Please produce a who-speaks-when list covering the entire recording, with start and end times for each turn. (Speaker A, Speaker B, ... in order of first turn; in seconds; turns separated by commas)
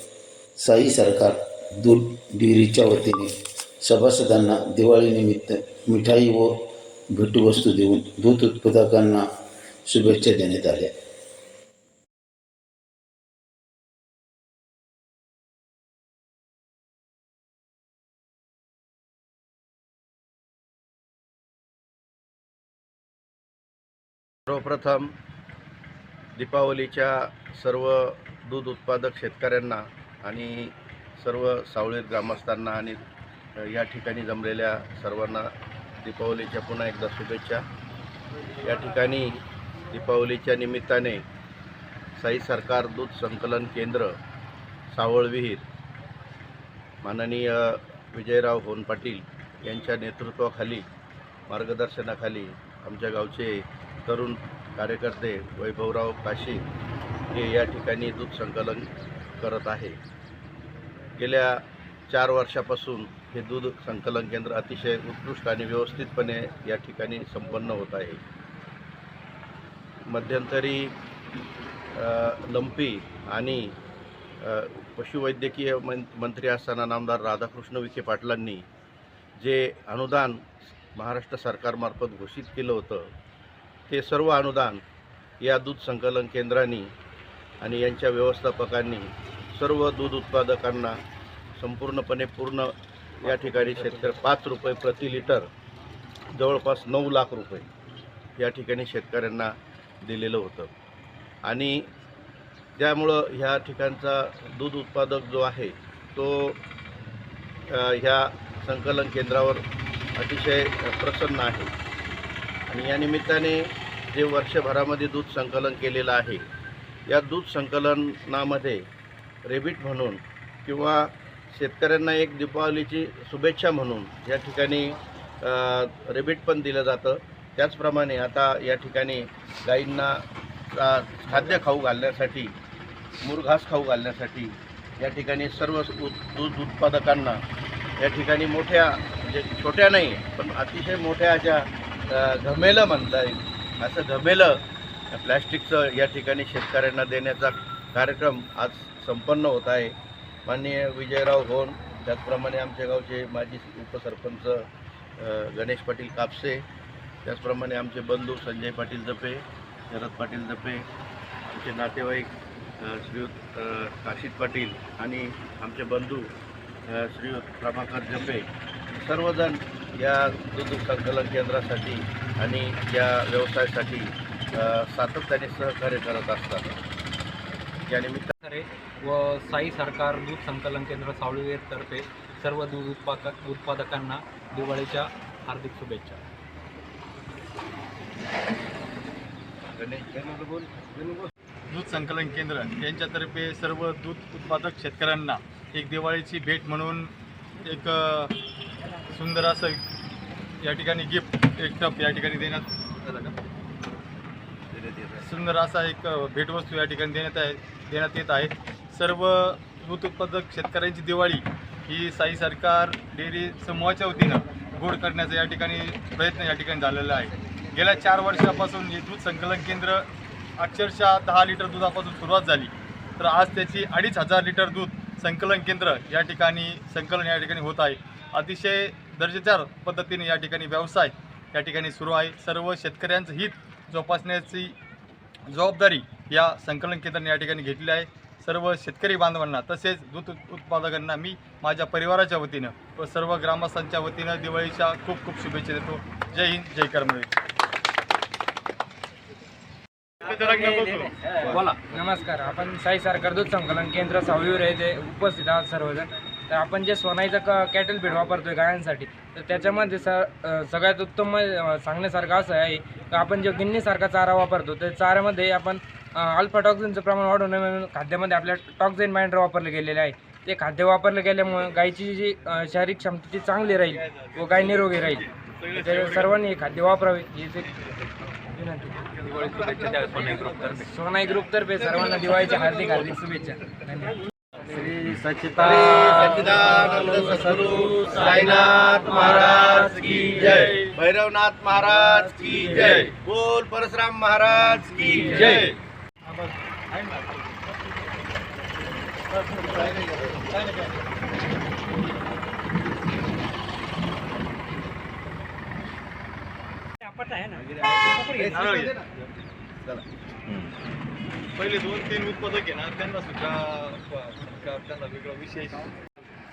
Speaker A: 0.6-9.3, Speaker A: 9.8-10.9, Speaker B: 24.5-25.1, Speaker B: 26.4-33.0, Speaker B: 33.6-35.5, Speaker B: 36.0-37.6, Speaker B: 38.6-41.2, Speaker B: 42.2-44.1, Speaker B: 44.9-45.6, Speaker B: 47.0-50.9, Speaker B: 51.5-56.6, Speaker B: 57.3-60.0, Speaker B: 61.2-68.2, Speaker B: 70.1-70.9, Speaker B: 71.9-73.7, Speaker B: 74.4-78.6, Speaker B: 79.4-80.4, Speaker B: 80.9-83.0, Speaker B: 83.9-84.8, Speaker B: 85.4-86.9, Speaker B: 87.6-91.0, Speaker B: 91.6-95.5, Speaker B: 96.3-97.7, Speaker B: 98.4-99.5, Speaker B: 100.0-100.7, Speaker B: 101.4-101.9, Speaker B: 102.8-106.6, Speaker B: 107.7-109.6, Speaker B: 110.2-111.7, Speaker B: 112.7-116.4, Speaker B: 117.1-118.8, Speaker B: 119.4-130.2, Speaker B: 130.8-132.5, Speaker B: 133.2-137.4, Speaker B: 138.0-144.6, Speaker B: 145.1-149.9, Speaker B: 150.4-154.7, Speaker B: 155.2-156.6, Speaker B: 157.2-160.8, Speaker B: 161.4-166.3, Speaker B: 166.9-168.5, Speaker B: 169.0-176.8, Speaker B: 177.9-178.3, Speaker C: 178.4-186.2, Speaker B: 189.7-191.3, Speaker D: 191.7-198.3, Speaker D: 199.1-199.8, Speaker D: 200.6-203.3, Speaker B: 204.7-205.2, Speaker D: 205.2-234.8, Speaker D: 235.5-247.3, Speaker D: 250.2-251.6, Speaker C: 251.4-251.8, Speaker E: 251.9-277.7, Speaker D: 275.6-276.3, Speaker E: 278.5-279.0, Speaker C: 279.2-280.9, Speaker E: 280.8-284.2, Speaker E: 284.8-285.2, Speaker B: 285.5-295.7, Speaker D: 290.5-290.8, Speaker D: 295.3-297.6, Speaker D: 299.5-299.8, Speaker B: 299.8-300.3, Speaker D: 300.5-300.9, Speaker E: 307.1-308.6, Speaker B: 308.4-309.1, Speaker D: 308.4-309.0, Speaker D: 311.6-316.1